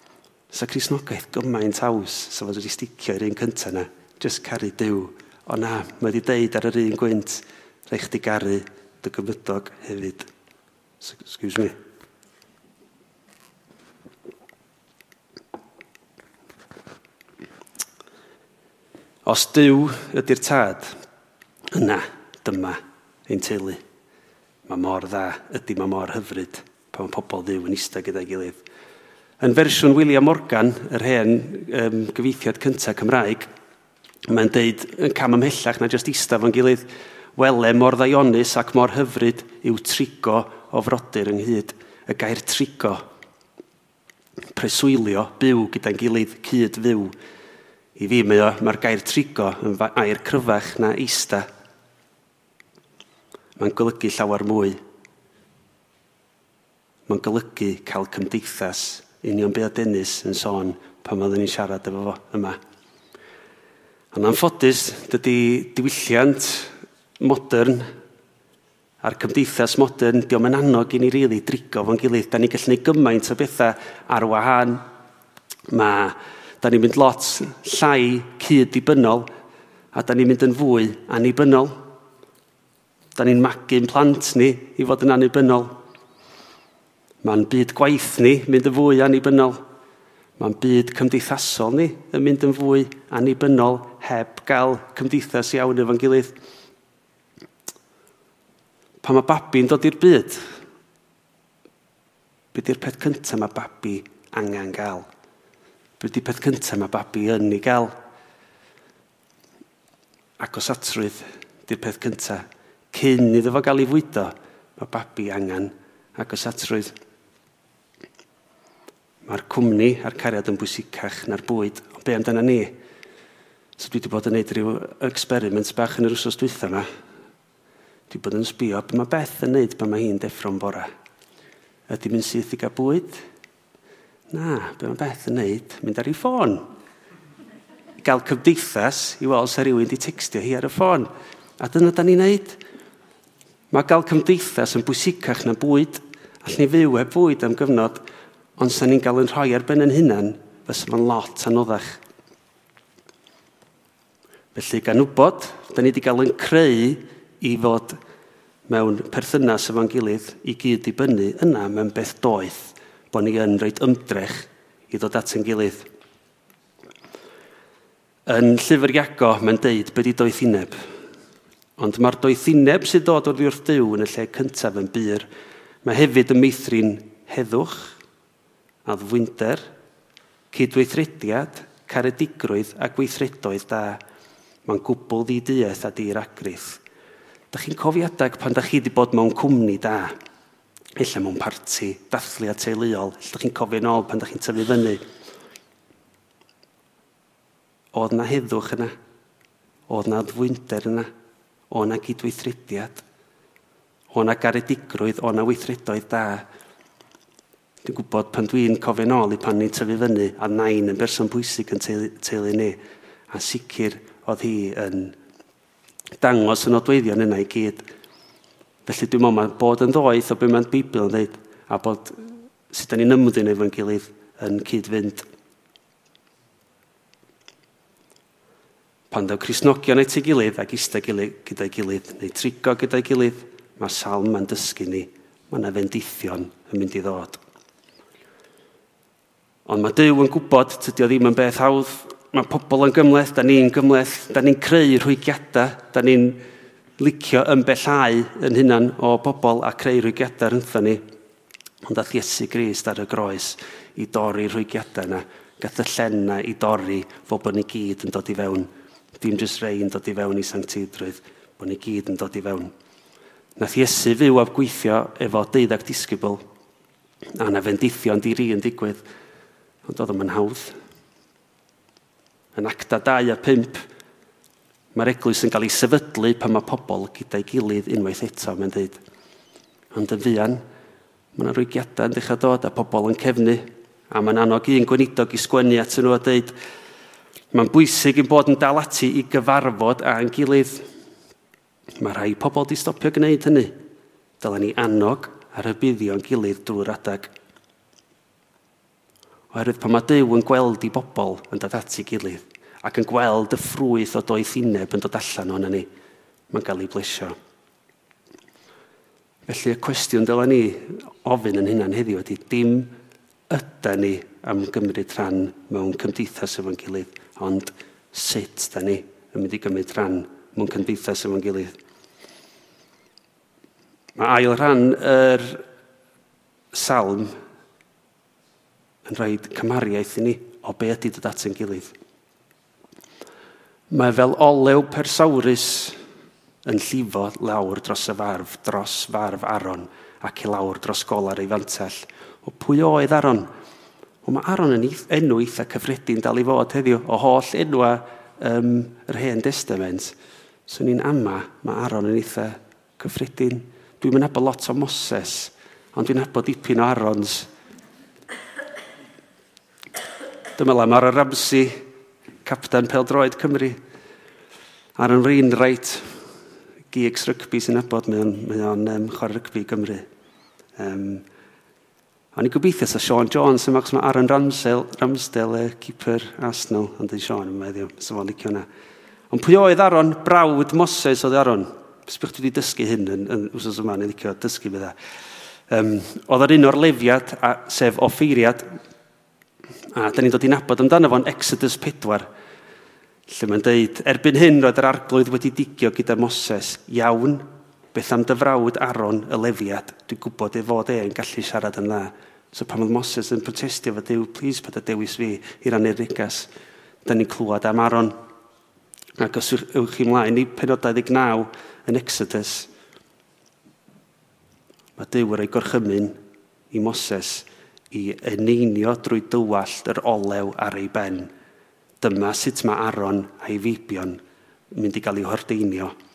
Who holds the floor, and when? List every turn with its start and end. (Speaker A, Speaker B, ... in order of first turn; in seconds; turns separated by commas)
Speaker A: 0.5-10.3, Speaker A: 11.0-11.8, Speaker A: 19.2-21.0, Speaker A: 21.7-23.8, Speaker A: 24.7-28.6, Speaker A: 29.4-33.5, Speaker A: 34.2-43.0, Speaker A: 44.5-47.1, Speaker A: 48.0-51.5, Speaker A: 53.6-54.8, Speaker A: 57.1-62.6, Speaker A: 64.1-67.9, Speaker A: 69.0-74.8, Speaker A: 75.7-79.3, Speaker A: 79.9-81.8, Speaker A: 83.2-85.8, Speaker A: 87.2-89.6, Speaker A: 90.4-96.4, Speaker A: 99.0-100.4, Speaker A: 102.5-105.1, Speaker A: 106.0-107.9, Speaker A: 110.4-116.9, Speaker A: 119.2-122.8, Speaker A: 123.8-126.9, Speaker A: 128.1-130.9, Speaker A: 131.9-133.2, Speaker A: 134.3-136.6, Speaker A: 138.0-142.6, Speaker A: 143.7-148.0, Speaker A: 148.6-152.0, Speaker A: 154.6-158.0, Speaker A: 158.7-165.9, Speaker A: 168.3-170.8, Speaker A: 171.8-175.3, Speaker A: 175.8-178.0, Speaker A: 178.8-179.7, Speaker A: 180.5-184.0, Speaker A: 184.7-186.8, Speaker A: 187.5-190.1, Speaker A: 191.0-195.0, Speaker A: 197.9-198.9, Speaker A: 199.9-201.1, Speaker A: 201.7-203.0, Speaker A: 204.1-206.5, Speaker A: 207.8-212.8, Speaker A: 213.3-215.2, Speaker A: 216.2-217.9, Speaker A: 218.9-225.3, Speaker A: 229.1-237.4, Speaker A: 239.7-246.4, Speaker A: 247.0-251.0, Speaker A: 251.8-262.7, Speaker A: 263.6-266.4, Speaker A: 267.4-269.0, Speaker A: 269.9-270.8, Speaker A: 272.6-273.8, Speaker A: 274.9-279.0, Speaker A: 279.9-280.6, Speaker A: 281.4-286.6, Speaker A: 287.5-290.9, Speaker A: 292.0-293.7, Speaker A: 294.4-297.3, Speaker A: 299.5-305.9, Speaker A: 306.5-307.4, Speaker A: 309.5-312.9, Speaker A: 313.5-321.7, Speaker A: 324.2-325.6, Speaker A: 326.7-327.4, Speaker A: 329.1-331.9, Speaker A: 333.9-336.0, Speaker A: 336.6-343.5, Speaker A: 344.2-350.1, Speaker A: 350.7-357.5, Speaker A: 360.6-361.8, Speaker A: 362.4-363.8, Speaker A: 365.0-366.1, Speaker A: 366.9-370.1, Speaker A: 370.8-371.2, Speaker A: 372.3-378.7, Speaker A: 379.3-385.0, Speaker A: 385.7-388.7, Speaker A: 389.9-392.3, Speaker A: 393.3-406.5, Speaker A: 407.1-408.1, Speaker A: 409.2-412.7, Speaker A: 415.0-416.2, Speaker A: 416.7-421.3, Speaker A: 422.0-424.2, Speaker A: 424.7-425.9